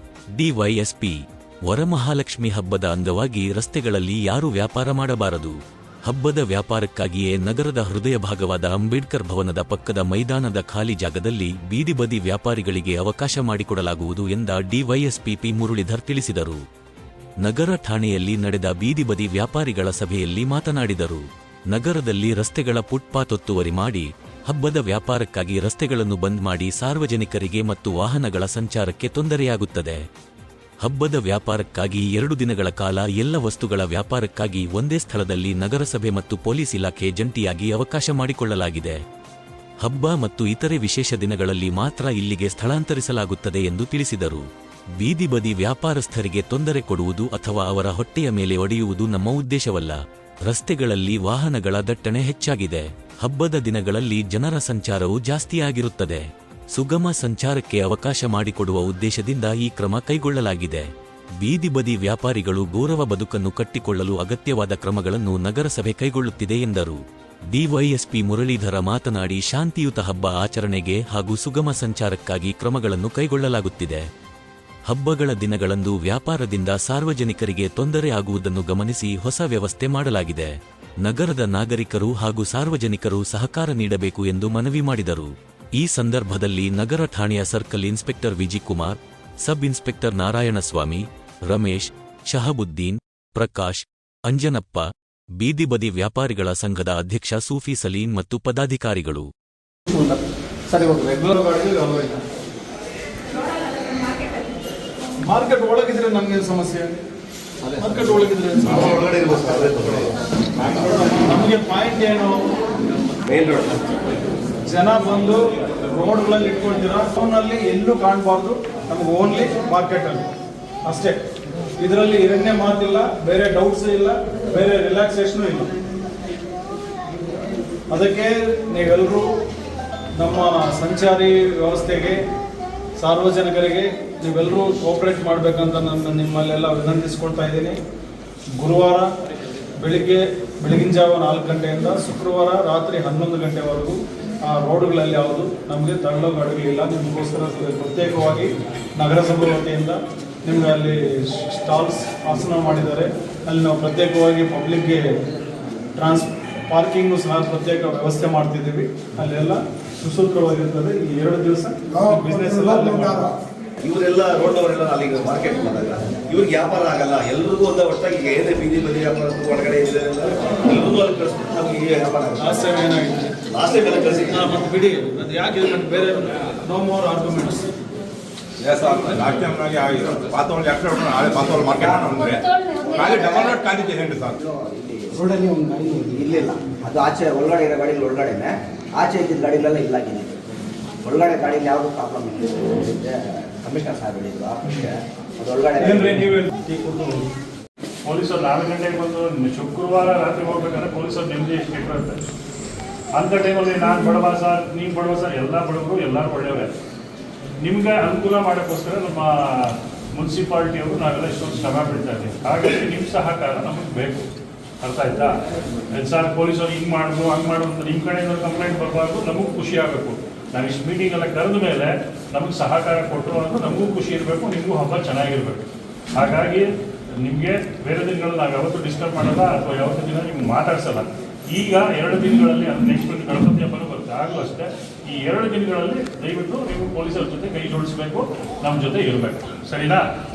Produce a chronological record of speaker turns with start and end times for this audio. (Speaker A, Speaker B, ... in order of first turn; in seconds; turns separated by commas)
Speaker A: 0.4-1.2, Speaker A: 1.7-5.5, Speaker A: 6.1-16.6, Speaker A: 17.4-30.0, Speaker A: 30.8-39.0, Speaker A: 39.8-44.5, Speaker A: 45.0-60.9, Speaker A: 61.4-67.0, Speaker A: 67.5-74.0, Speaker A: 74.9-80.5, Speaker A: 81.0-94.8, Speaker A: 95.4-99.3, Speaker B: 100.7-102.2, Speaker B: 105.3-106.9, Speaker B: 107.8-109.1, Speaker C: 108.7-110.1, Speaker B: 110.6-112.5, Speaker C: 113.3-113.8, Speaker B: 114.7-120.3, Speaker B: 120.8-121.2, Speaker B: 121.8-125.7, Speaker B: 127.9-129.3, Speaker B: 130.2-132.2, Speaker B: 133.0-137.8, Speaker B: 138.6-139.1, Speaker B: 139.8-155.0, Speaker B: 156.0-163.3, Speaker C: 163.8-172.6, Speaker B: 172.4-173.3, Speaker C: 173.4-174.3, Speaker B: 174.3-177.7, Speaker D: 178.6-184.4, Speaker E: 181.8-182.1, Speaker E: 182.8-183.5, Speaker E: 184.4-185.2, Speaker E: 185.9-190.4, Speaker E: 191.0-196.2, Speaker B: 195.8-197.2, Speaker F: 198.1-202.2, Speaker F: 203.2-206.7, Speaker F: 207.6-214.3, Speaker F: 214.8-215.4, Speaker F: 215.9-226.7, Speaker F: 227.2-240.1